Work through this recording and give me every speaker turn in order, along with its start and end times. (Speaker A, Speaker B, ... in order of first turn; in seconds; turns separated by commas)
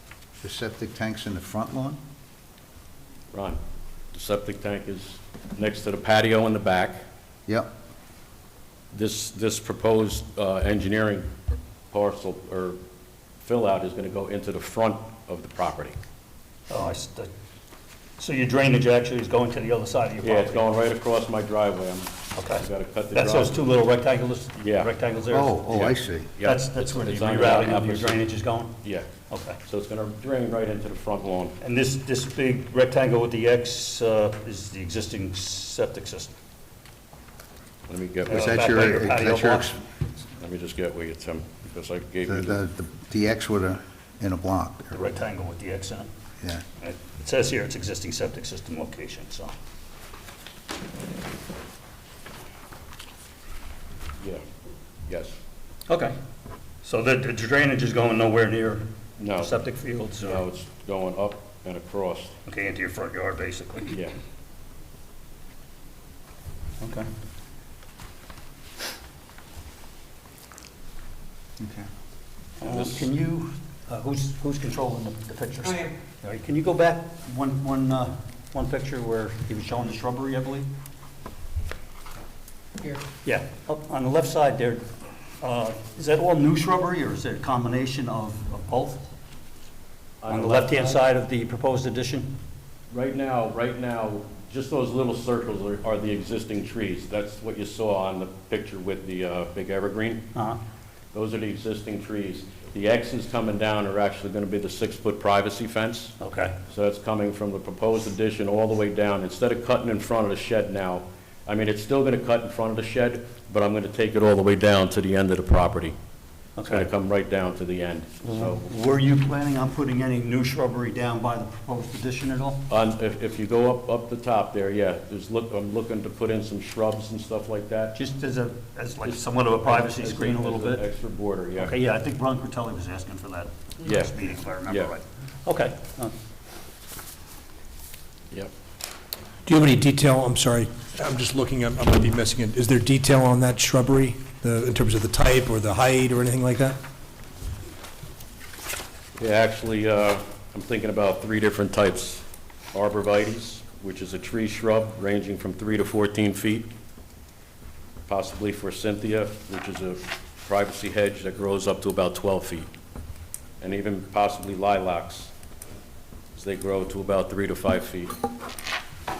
Speaker A: 0.4-2.0, Speaker B: 3.3-3.6, Speaker B: 4.1-7.0, Speaker B: 8.9-11.3, Speaker B: 11.9-12.8, Speaker B: 13.4-15.9, Speaker C: 16.7-17.3, Speaker C: 18.2-20.6, Speaker B: 20.2-23.6, Speaker C: 22.3-25.6, Speaker B: 24.6-24.9, Speaker A: 25.2-26.3, Speaker B: 25.7-28.2, Speaker C: 26.4-28.8, Speaker B: 28.8-29.1, Speaker C: 29.3-29.6, Speaker B: 29.6-31.5, Speaker C: 31.6-36.3, Speaker B: 37.9-39.0, Speaker C: 38.3-39.7, Speaker A: 38.3-39.8, Speaker B: 40.4-42.6, Speaker A: 42.2-45.1, Speaker C: 45.0-46.1, Speaker C: 46.8-49.5, Speaker B: 55.1-55.4, Speaker C: 55.9-56.2, Speaker C: 56.8-58.9, Speaker B: 59.2-59.5, Speaker C: 59.4-60.4, Speaker B: 60.2-62.3, Speaker C: 62.5-64.0, Speaker B: 63.9-64.2, Speaker C: 66.8-67.1, Speaker A: 71.6-71.9, Speaker C: 72.6-80.7, Speaker B: 72.6-73.0, Speaker C: 82.8-84.8, Speaker C: 85.4-89.0, Speaker B: 90.2-91.0, Speaker C: 90.3-92.3, Speaker B: 92.9-100.2, Speaker B: 101.1-106.1, Speaker C: 106.2-106.5, Speaker B: 106.7-116.0, Speaker C: 116.5-116.9, Speaker B: 116.7-118.7, Speaker C: 118.2-122.6, Speaker B: 122.7-128.0, Speaker C: 128.0-130.8, Speaker B: 129.0-131.8, Speaker C: 131.6-136.1, Speaker B: 133.8-134.9, Speaker D: 139.4-146.8, Speaker B: 149.2-156.7, Speaker B: 158.1-162.7, Speaker B: 163.6-165.3, Speaker B: 166.3-168.2